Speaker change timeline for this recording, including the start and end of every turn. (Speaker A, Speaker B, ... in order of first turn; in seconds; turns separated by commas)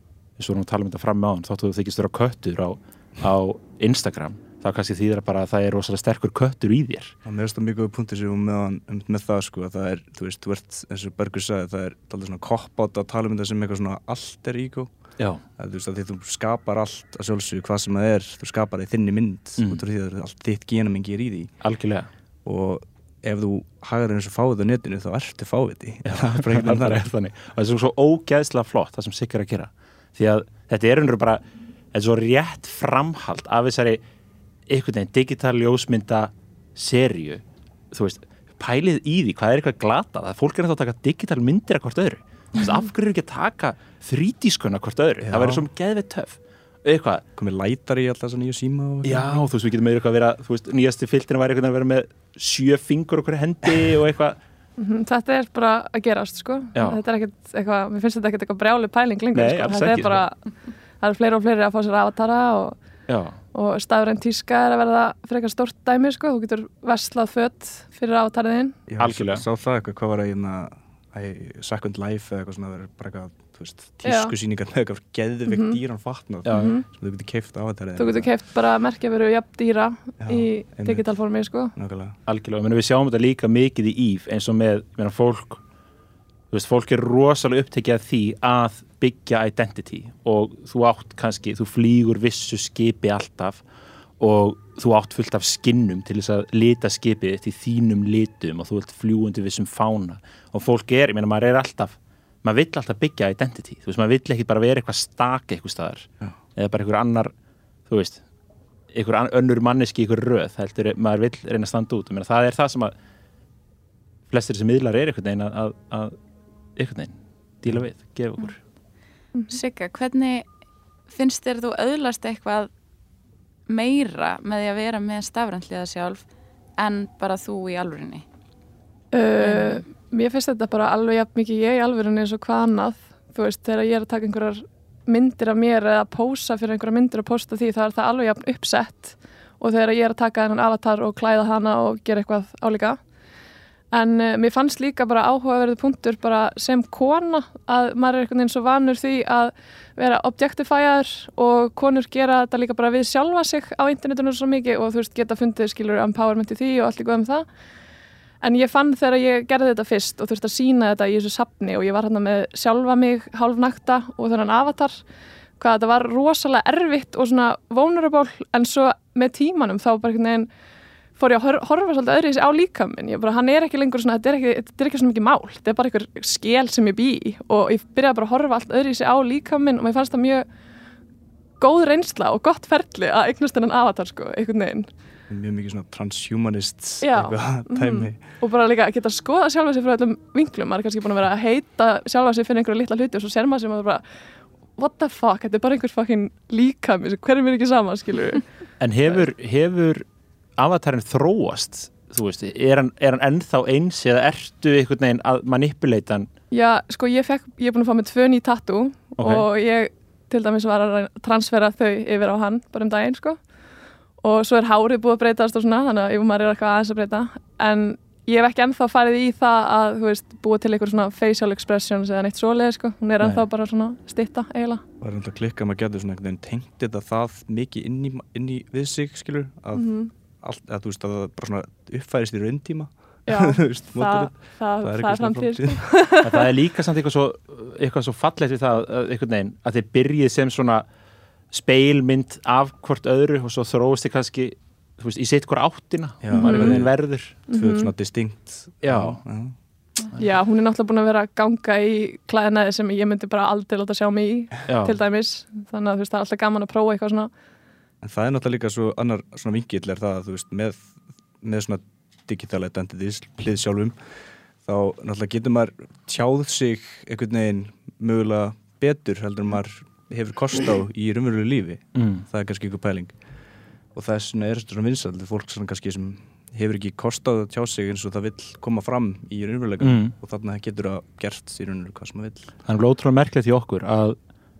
Speaker A: 0.4-7.1, Speaker B: 7.2-14.9, Speaker B: 15.6-21.5, Speaker A: 19.6-19.8, Speaker A: 21.6-22.1, Speaker B: 22.4-27.1, Speaker A: 26.0-31.4, Speaker A: 31.9-34.0, Speaker A: 34.7-47.2, Speaker B: 45.2-45.6, Speaker B: 47.4-49.4, Speaker A: 49.0-54.4, Speaker C: 54.8-60.4, Speaker A: 56.7-57.0, Speaker A: 59.3-60.2, Speaker C: 61.0-62.8, Speaker A: 63.1-63.4, Speaker C: 63.5-68.8, Speaker B: 68.9-78.3, Speaker A: 69.0-69.4, Speaker C: 74.0-74.3, Speaker C: 75.5-75.8, Speaker A: 76.4-76.8, Speaker C: 76.5-76.8, Speaker C: 78.0-81.7, Speaker B: 80.2-81.0, Speaker B: 81.7-82.2, Speaker A: 82.2-85.6, Speaker A: 86.5-93.6, Speaker A: 94.2-107.3, Speaker A: 107.9-108.2, Speaker A: 108.9-112.9, Speaker A: 114.3-116.2, Speaker A: 116.8-118.6, Speaker D: 119.5-120.5, Speaker D: 121.1-122.7, Speaker D: 123.7-128.2, Speaker C: 129.1-143.0, Speaker D: 129.4-129.8, Speaker C: 143.9-157.5, Speaker C: 158.4-165.0, Speaker C: 165.6-170.5, Speaker C: 171.2-180.5, Speaker C: 181.6-184.9, Speaker B: 185.3-188.2, Speaker C: 187.0-194.0, Speaker C: 194.8-198.4, Speaker A: 198.8-200.0, Speaker A: 200.6-206.3, Speaker C: 206.5-213.4, Speaker A: 209.2-209.4, Speaker C: 214.2-224.8, Speaker B: 225.0-236.1, Speaker C: 229.7-230.1, Speaker C: 233.2-236.4, Speaker A: 236.2-240.8, Speaker A: 241.5-247.4, Speaker B: 246.2-249.5, Speaker C: 246.3-246.8, Speaker C: 247.5-247.9, Speaker A: 248.8-249.2, Speaker C: 250.1-257.3, Speaker A: 254.7-254.9, Speaker B: 258.0-264.0, Speaker B: 264.6-273.1, Speaker A: 271.9-272.2, Speaker B: 273.9-282.5, Speaker A: 279.8-280.1, Speaker A: 282.6-284.2